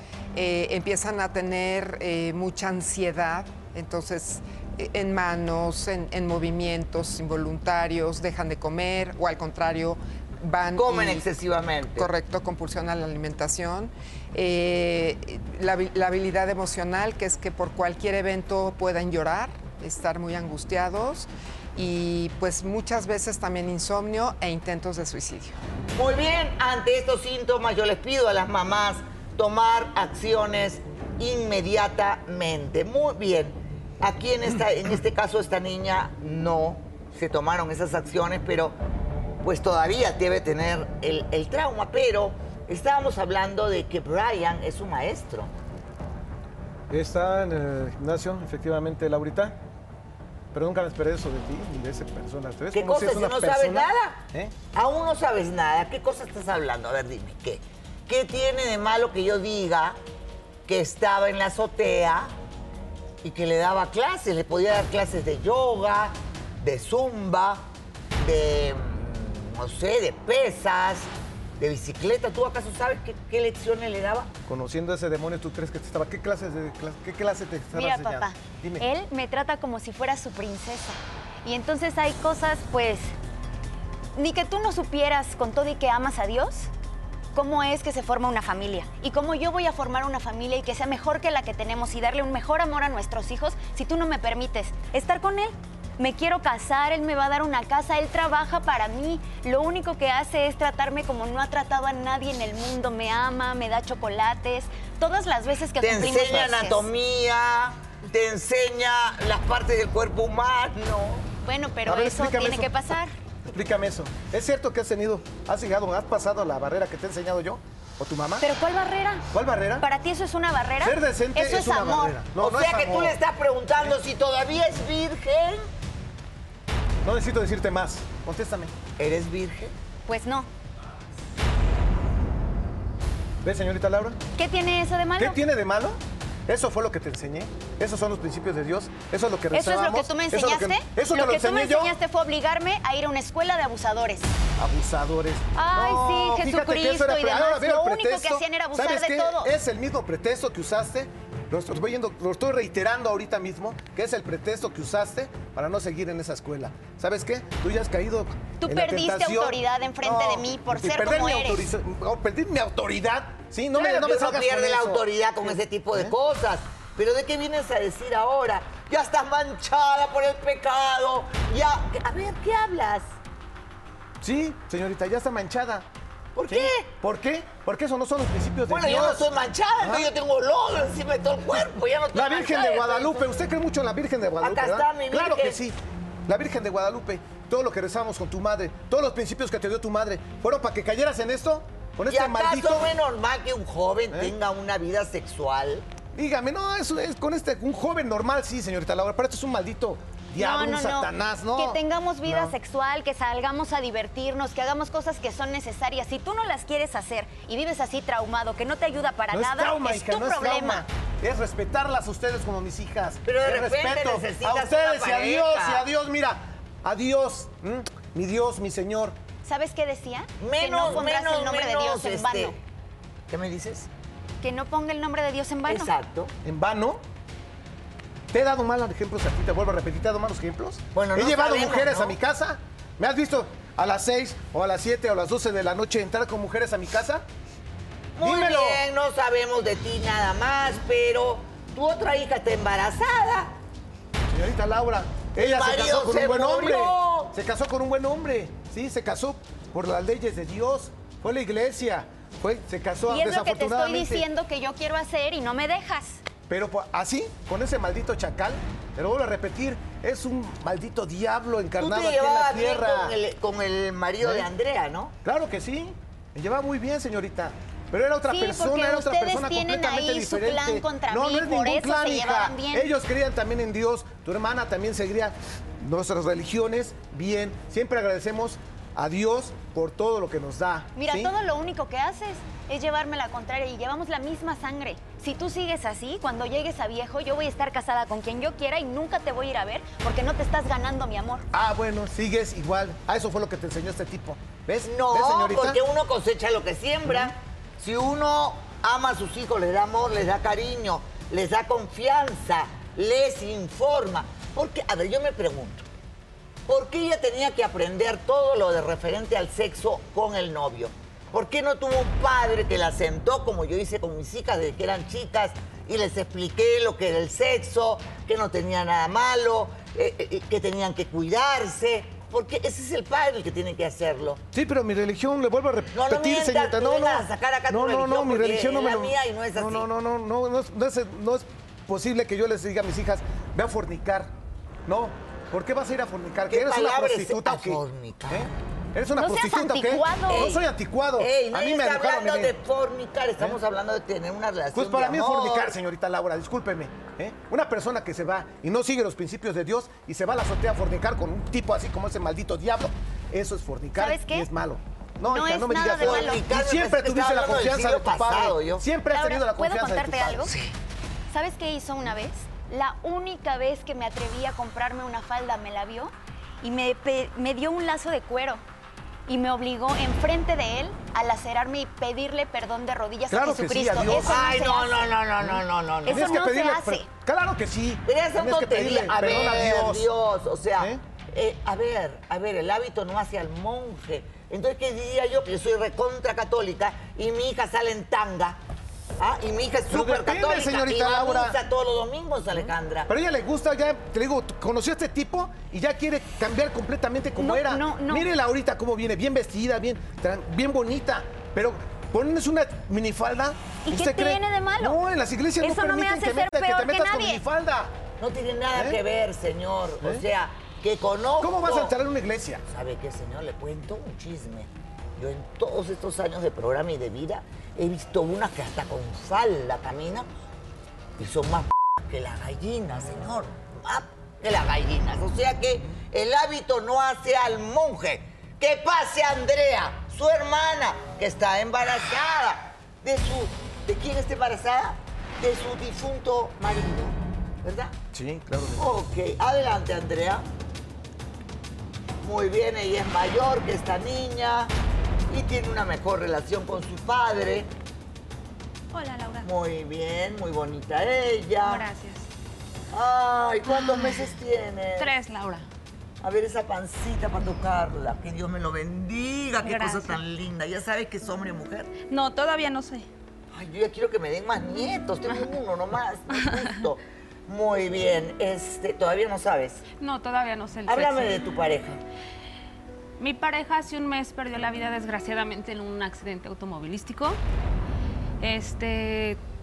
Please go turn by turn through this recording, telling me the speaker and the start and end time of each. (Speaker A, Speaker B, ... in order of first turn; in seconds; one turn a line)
Speaker A: 0.3-11.3
Speaker B: 10.8-12.1
Speaker A: 12.0-25.6
Speaker B: 25.9-38.8
Speaker B: 39.4-45.5
Speaker C: 46.9-49.6
Speaker C: 50.5-54.5
Speaker B: 52.7-60.0
Speaker B: 60.7-62.3
Speaker B: 63.2-67.7
Speaker B: 68.2-74.3
Speaker C: 74.5-78.8
Speaker D: 77.7-83.2
Speaker D: 84.2-86.7
Speaker D: 87.3-106.9
Speaker B: 105.8-111.3
Speaker D: 111.4-113.1
Speaker C: 111.8-112.7
Speaker C: 113.5-118.5
Speaker D: 118.4-119.3
Speaker C: 119.3-119.8
Speaker D: 119.8-122.2
Speaker C: 120.8-123.2
Speaker B: 122.4-125.7
Speaker C: 127.0-128.7
Speaker B: 129.0-129.7
Speaker D: 130.1-130.5
Speaker C: 133.4-134.2
Speaker D: 134.4-135.4
Speaker C: 135.2-141.9
Speaker D: 139.5-144.3
Speaker C: 144.6-166.1
Speaker D: 145.6-149.5
Speaker D: 158.6-161.7
Speaker B: 163.7-173.2
Speaker C: 174.2-175.9
Speaker B: 176.3-176.9
Speaker C: 176.5-179.3
Speaker B: 178.7-183.2
Speaker C: 179.8-180.1
Speaker C: 182.1-192.9
Speaker B: 184.4-185.6
Speaker B: 192.1-195.9
Speaker C: 196.2-202.5
Speaker D: 200.4-210.8
Speaker C: 209.3-219.2
Speaker B: 213.2-215.9
Speaker D: 219.4-222.6
Speaker B: 220.4-222.6
Speaker B: 223.3-223.9
Speaker D: 224.4-225.9
Speaker B: 225.7-226.3
Speaker C: 226.4-227.0
Speaker C: 228.3-237.2
Speaker B: 230.9-232.2
Speaker B: 238.2-243.5
Speaker C: 238.2-238.8
Speaker C: 244.3-254.2
Speaker B: 245.3-247.3
Speaker D: 253.1-256.2
Speaker C: 256.5-263.2
Speaker B: 261.8-265.1
Speaker C: 264.2-264.5
Speaker C: 265.2-281.3
Speaker D: 268.3-272.9
Speaker D: 280.9-291.5
Speaker C: 291.5-295.8
Speaker B: 294.8-305.9
Speaker B: 306.7-324.4
Speaker C: 324.5-334.3
Speaker B: 325.9-329.9
Speaker C: 334.9-342.5
Speaker B: 336.5-338.5
Speaker D: 339.2-340.6
Speaker B: 340.3-340.6
Speaker B: 341.2-345.8
Speaker C: 344.7-360.5
Speaker D: 354.0-354.5
Speaker D: 355.2-356.4
Speaker B: 356.0-358.9
Speaker D: 359.1-360.5
Speaker B: 360.5-360.7
Speaker D: 361.3-368.6
Speaker D: 369.3-375.0
Speaker C: 373.3-374.5
Speaker B: 374.2-376.4
Speaker C: 375.4-380.1
Speaker D: 376.1-377.1
Speaker B: 378.1-388.6
Speaker B: 389.2-393.1
Speaker C: 389.9-391.6
Speaker C: 392.5-407.9
Speaker D: 397.4-398.3
Speaker D: 403.9-405.0
Speaker D: 405.6-407.4
Speaker B: 408.2-411.9
Speaker C: 408.7-409.0
Speaker C: 411.4-412.6
Speaker B: 412.6-420.3
Speaker B: 421.2-437.9
Speaker C: 438.1-438.9
Speaker B: 438.8-440.5
Speaker B: 442.2-444.7
Speaker B: 445.3-447.7
Speaker E: 448.9-449.5
Speaker B: 449.4-451.9
Speaker E: 451.6-452.3
Speaker B: 452.9-455.1
Speaker E: 453.7-454.3
Speaker E: 455.0-455.7
Speaker B: 456.2-461.9
Speaker E: 459.6-460.2
Speaker E: 462.1-463.1
Speaker B: 463.5-469.8
Speaker E: 466.4-466.8
Speaker E: 470.0-471.4
Speaker B: 470.9-472.0
Speaker E: 473.2-477.4
Speaker E: 478.4-479.4